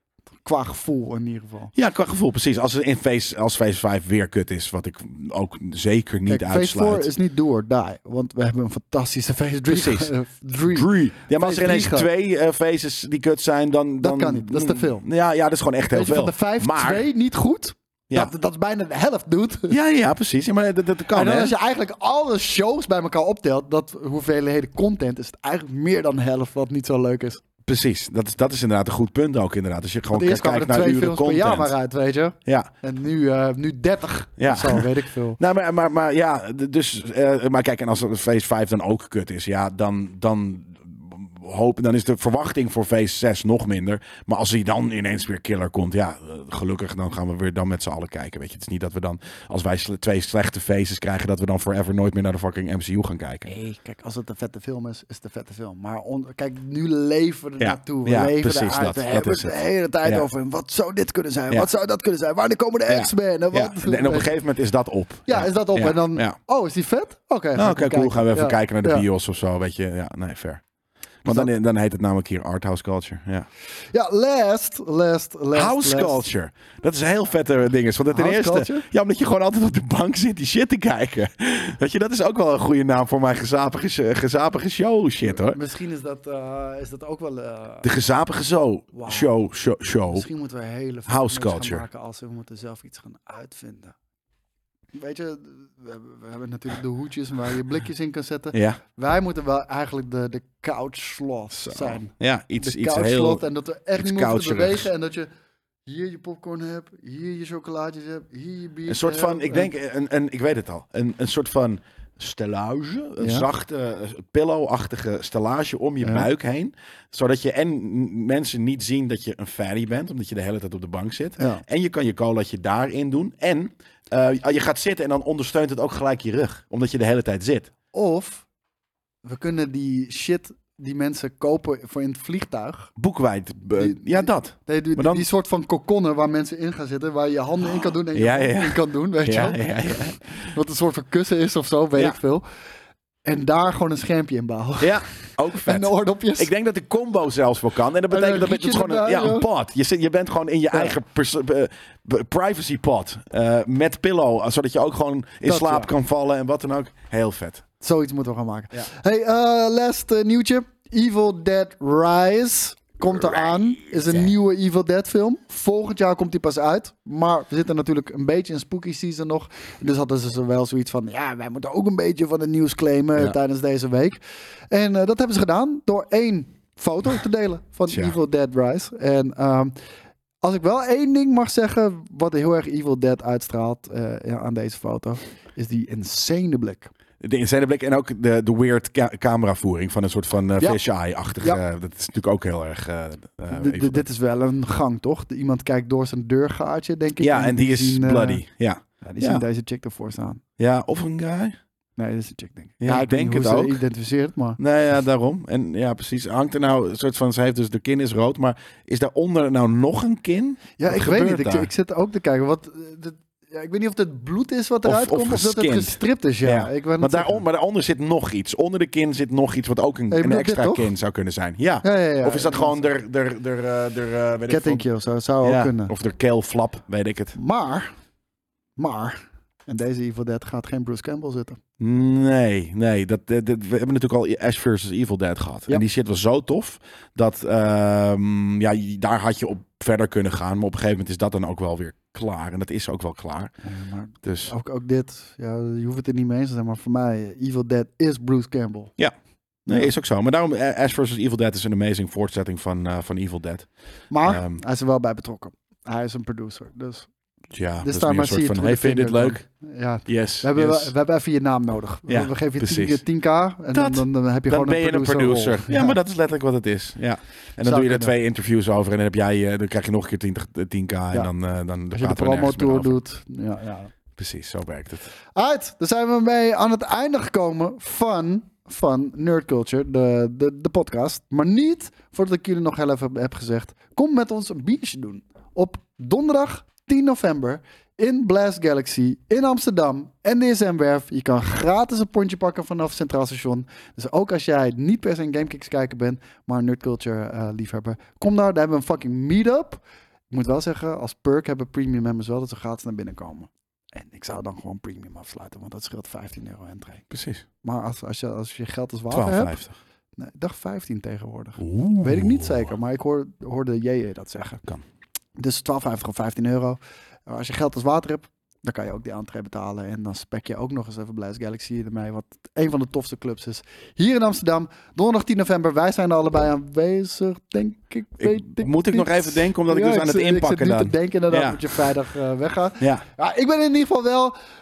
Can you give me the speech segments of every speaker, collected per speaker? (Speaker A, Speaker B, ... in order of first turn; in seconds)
Speaker A: 0.5-1.7, 6.3-12.1, 14.0-15.1, 15.9-19.8, 21.1-27.4, 30.1-35.4, 53.5-64.3, 65.3-69.0, 73.9-76.3, 78.1-78.9, 85.2-87.9, 88.9-89.3, 90.1-94.0, 94.9-105.3, 105.9-109.7, 113.2-113.5, 116.0-116.3, 121.4-121.6, 127.9-128.4, 129.2-132.9, 133.8-142.4, 143.2-146.5, 148.1-149.5, 150.7-151.0, 155.4-155.9, 157.8-174.2, 174.7-179.7, 180.4-186.9, 193.5-198.4, 199.0-200.4, 202.0-204.6, 210.8-217.4, 220.1-220.9, 221.8-222.8, 224.5-225.9, 227.3-227.9, 228.8-231.6, 243.6-248.9, 254.1-257.1, 257.8-266.0, 267.6-268.1, 271.9-273.9, 275.3-307.1, 307.6-309.6, 310.2-314.6, 315.4-334.3
Speaker B: 1.7-7.1, 9.7-10.1, 10.7-17.1, 19.7-21.5, 27.7-31.7, 32.5-32.7, 34.4-53.5, 57.6-60.2, 62.9-66.4, 67.5-70.6, 71.2-73.5, 75.5-85.6, 87.8-90.3, 91.1-91.9, 98.5-98.8, 101.5-103.4, 104.0-104.9, 108.9-127.7, 133.0-135.2, 137.7-140.3, 144.8-157.6, 164.0-164.3, 177.9-178.2, 187.2-194.1, 197.2-199.4, 200.6-201.6, 202.8-203.8, 204.6-211.7, 214.8-224.8, 225.4-227.4, 231.8-243.5, 244.2-244.5, 249.7-253.7, 254.2-254.6, 257.5-259.4, 260.1-260.9, 262.1-263.0, 263.7-272.9, 274.2-275.1, 307.1-307.4, 309.1-309.7, 311.6-312.7, 328.2-331.9